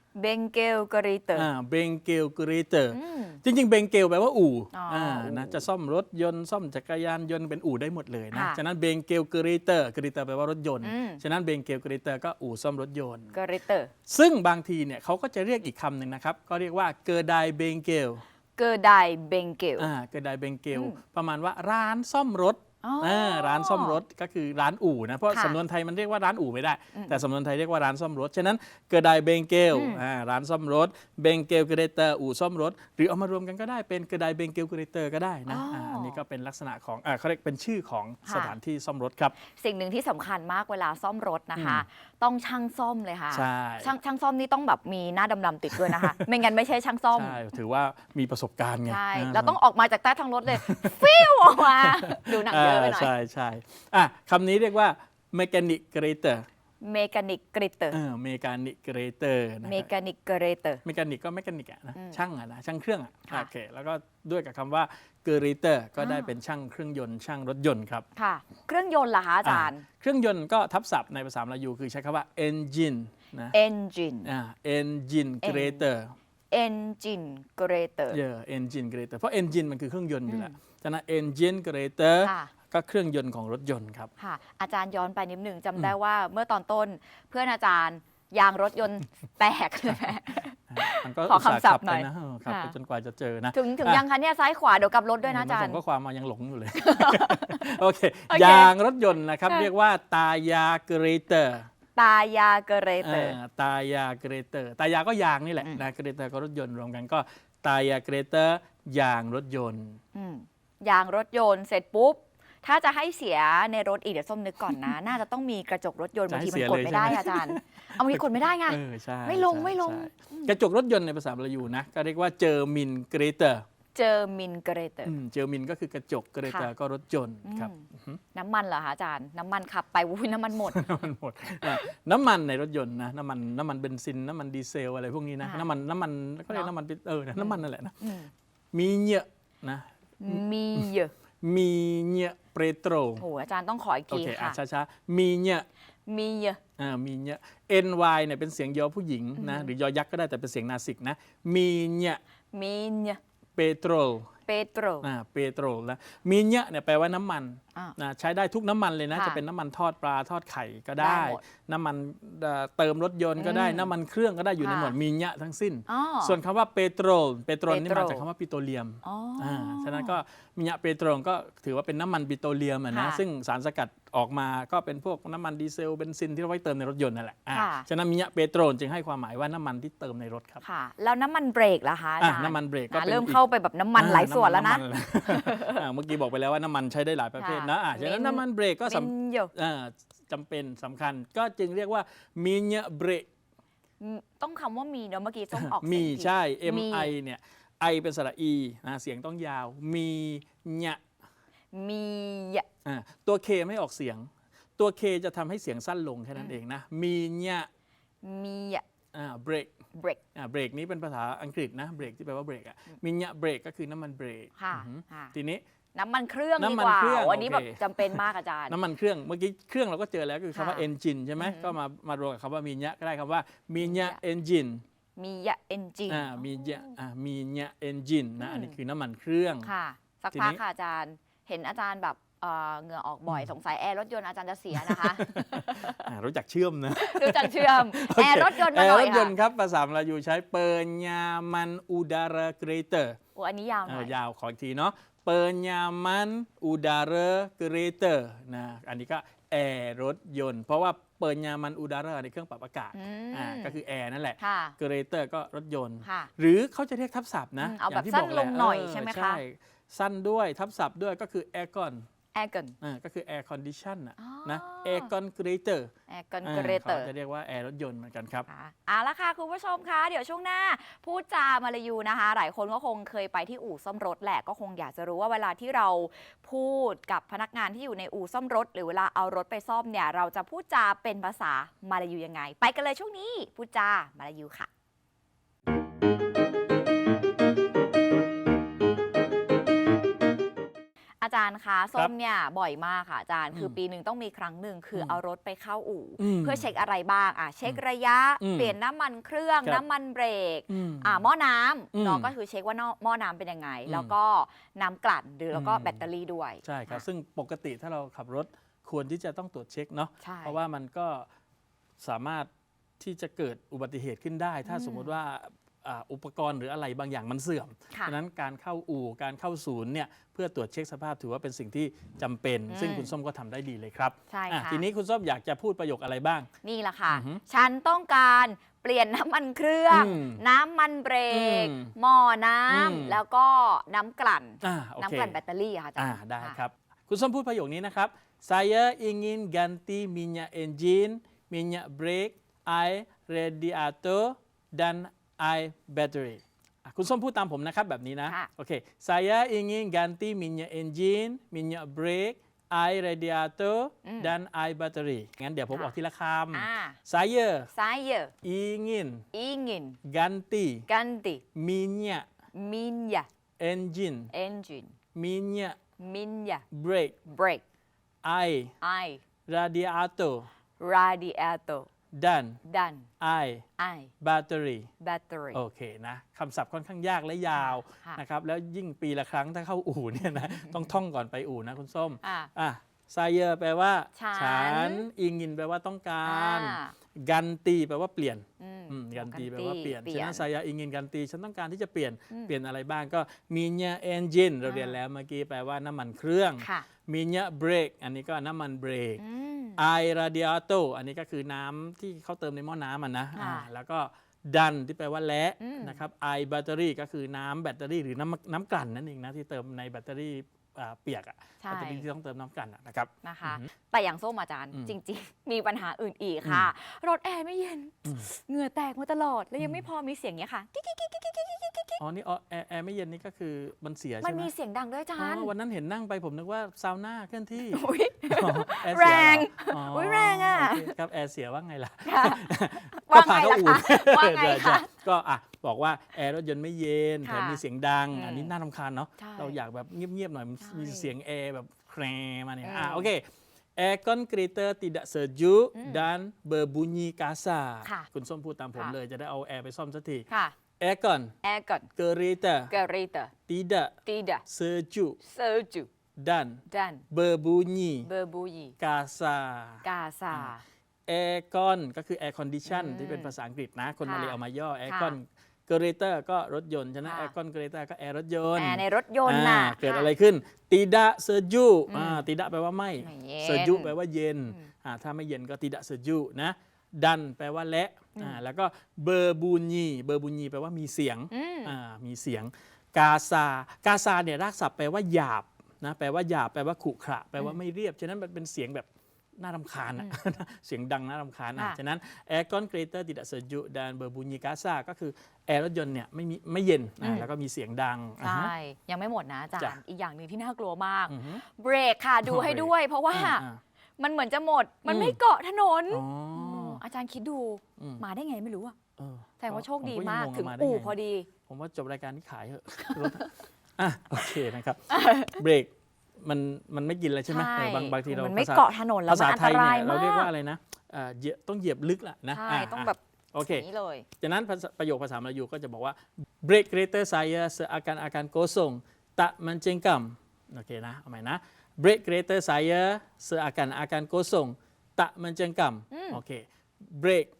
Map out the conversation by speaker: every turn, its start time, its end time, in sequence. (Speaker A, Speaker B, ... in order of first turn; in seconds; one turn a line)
Speaker A: 0.1-1.5
Speaker B: 1.4-13.3
Speaker A: 2.9-3.4
Speaker A: 4.7-5.7
Speaker A: 8.3-8.6
Speaker A: 10.8-11.2
Speaker A: 13.3-13.9
Speaker B: 14.1-18.2
Speaker A: 18.6-19.9
Speaker B: 19.8-39.3
Speaker A: 22.8-24.0
Speaker A: 25.3-25.6
Speaker A: 26.9-27.2
Speaker A: 29.7-30.0
Speaker A: 35.5-36.2
Speaker A: 38.3-38.6
Speaker A: 39.4-47.4
Speaker B: 41.6-41.8
Speaker B: 43.3-43.9
Speaker B: 45.7-46.2
Speaker B: 47.1-49.6
Speaker A: 48.9-53.1
Speaker B: 50.5-56.5
Speaker A: 56.8-58.0
Speaker B: 57.9-59.9
Speaker A: 59.6-60.8
Speaker B: 60.9-68.0
Speaker A: 62.0-62.2
Speaker A: 66.0-66.3
Speaker A: 68.2-69.8
Speaker B: 69.4-73.6
Speaker A: 73.5-74.3
Speaker B: 74.2-76.1
Speaker A: 75.4-75.8
Speaker A: 76.5-78.2
Speaker B: 78.1-84.1
Speaker A: 80.3-80.5
Speaker A: 82.2-82.5
Speaker A: 84.2-92.8
Speaker B: 90.7-94.0
Speaker A: 93.5-95.8
Speaker B: 95.2-101.7
Speaker A: 96.8-97.7
Speaker A: 98.3-98.7
Speaker A: 102.0-103.4
Speaker B: 103.0-110.0
Speaker A: 110.1-120.5
Speaker B: 114.7-115.0
Speaker B: 116.3-123.6
Speaker A: 124.0-125.2
Speaker B: 125.0-128.2
Speaker A: 126.4-126.7
Speaker A: 127.4-130.8
Speaker B: 130.7-138.1
Speaker A: 137.4-138.3
Speaker B: 138.7-143.2
Speaker A: 140.2-141.1
Speaker A: 143.2-144.6
Speaker B: 144.1-145.7
Speaker A: 146.1-146.6
Speaker B: 146.8-152.2
Speaker A: 149.4-149.7
Speaker A: 152.5-153.2
Speaker B: 153.6-154.3
Speaker A: 154.5-155.1
Speaker B: 155.0-180.6
Speaker A: 159.1-159.4
Speaker A: 161.0-161.4
Speaker A: 163.4-163.9
Speaker A: 164.6-165.0
Speaker A: 165.9-166.4
Speaker A: 167.7-168.2
Speaker A: 169.0-170.2
Speaker A: 172.9-173.2
Speaker A: 177.5-177.9
Speaker A: 180.6-185.8
Speaker B: 182.2-183.4
Speaker B: 184.0-193.3
Speaker A: 187.4-189.5
Speaker A: 194.0-197.1
Speaker B: 195.5-201.0
Speaker A: 201.7-202.7
Speaker B: 202.8-207.7
Speaker A: 208.2-208.8
Speaker B: 209.1-209.7
Speaker A: 209.9-210.2
Speaker B: 210.3-215.6
Speaker A: 214.6-215.3
Speaker A: 215.9-218.8
Speaker B: 216.6-224.8
Speaker A: 220.5-220.9
Speaker A: 221.4-221.8
Speaker A: 223.8-224.2
Speaker A: 225.2-226.9
Speaker B: 226.1-229.7
Speaker A: 228.4-228.8
Speaker A: 229.6-236.0
Speaker B: 230.3-230.6
Speaker B: 234.7-243.2
Speaker A: 236.9-239.3
Speaker A: 243.3-244.2
Speaker B: 243.9-262.1
Speaker A: 252.9-253.8
Speaker A: 254.4-254.8
Speaker A: 256.0-256.3
Speaker A: 257.6-259.4
Speaker A: 262.3-262.8
Speaker B: 262.8-265.9
Speaker A: 264.2-265.1
Speaker A: 266.1-267.1
Speaker B: 266.4-268.5
Speaker A: 268.5-284.7
Speaker A: 291.2-307.1
Speaker B: 294.9-295.2
Speaker B: 296.2-296.7
Speaker B: 298.4-298.8
Speaker B: 300.7-301.2
Speaker B: 301.9-302.3
Speaker B: 303.9-304.1
Speaker B: 305.5-306.1
Speaker B: 306.6-311.3
Speaker A: 310.2-310.6
Speaker B: 312.0-312.5
Speaker B: 313.0-326.5
Speaker A: 314.6-315.1
Speaker A: 322.7-323.1
Speaker A: 324.3-324.9
Speaker A: 326.6-336.6
Speaker B: 327.1-327.4
Speaker B: 329.9-330.4
Speaker B: 331.3-331.9
Speaker B: 332.7-333.2
Speaker B: 334.6-335.4
Speaker B: 336.0-357.7
Speaker A: 354.1-354.3
Speaker A: 356.5-357.0
Speaker A: 357.7-358.3
Speaker B: 358.4-359.2
Speaker A: 359.3-360.0
Speaker B: 360.1-360.9
Speaker A: 360.9-361.4
Speaker B: 361.6-362.3
Speaker A: 362.5-363.3
Speaker B: 363.6-364.3
Speaker A: 364.3-364.9
Speaker B: 365.1-365.8
Speaker A: 366.0-366.6
Speaker B: 366.7-367.2
Speaker A: 367.2-367.6
Speaker B: 368.2-368.7
Speaker A: 368.8-369.2
Speaker B: 369.5-370.5
Speaker A: 370.8-371.9
Speaker B: 372.1-372.6
Speaker A: 372.6-373.1
Speaker B: 373.2-373.6
Speaker A: 373.8-374.1
Speaker B: 374.2-374.9
Speaker A: 375.0-375.6
Speaker B: 375.5-399.2
Speaker A: 377.5-378.2
Speaker A: 382.2-382.5
Speaker A: 384.1-385.1
Speaker A: 386.2-386.9
Speaker A: 388.6-390.4
Speaker A: 394.7-395.0
Speaker A: 396.6-396.9
Speaker A: 399.2-399.8
Speaker B: 399.8-413.7
Speaker A: 403.4-403.7
Speaker A: 405.6-406.0
Speaker A: 411.6-412.0
Speaker A: 413.2-422.0
Speaker B: 416.4-416.7
Speaker B: 419.6-419.9
Speaker B: 422.0-424.5
Speaker A: 424.2-425.5
Speaker B: 425.2-443.2
Speaker A: 427.7-430.9
Speaker A: 432.1-432.4
Speaker A: 433.0-434.9
Speaker A: 437.2-438.5
Speaker A: 439.2-439.6
Speaker A: 440.6-441.1
Speaker A: 442.6-443.1
Speaker B: 443.8-450.3
Speaker A: 445.8-446.1
Speaker A: 450.3-450.6
Speaker B: 450.8-451.3
Speaker A: 451.4-451.9
Speaker B: 452.0-452.7
Speaker A: 452.7-453.3
Speaker B: 453.5-455.2
Speaker A: 454.1-454.4
Speaker A: 455.2-455.9
Speaker B: 456.2-458.1
Speaker A: 456.7-457.0
Speaker A: 458.0-458.8
Speaker B: 458.8-460.6
Speaker A: 459.8-460.6
Speaker B: 461.1-488.9
Speaker A: 462.7-463.3
Speaker A: 464.0-465.2
Speaker A: 467.0-467.3
Speaker A: 468.6-470.1
Speaker A: 471.9-472.3
Speaker A: 473.0-473.9
Speaker A: 481.3-481.8
Speaker B: 489.4-498.5
Speaker A: 497.0-497.3
Speaker A: 498.2-503.4
Speaker B: 501.1-501.4
Speaker B: 502.3-503.6
Speaker A: 504.0-508.8
Speaker B: 504.9-505.2
Speaker B: 505.9-506.8
Speaker B: 509.0-523.7
Speaker A: 509.4-511.3
Speaker A: 514.9-515.4
Speaker A: 517.3-520.3
Speaker A: 522.3-524.1
Speaker B: 524.2-537.3
Speaker A: 535.9-536.2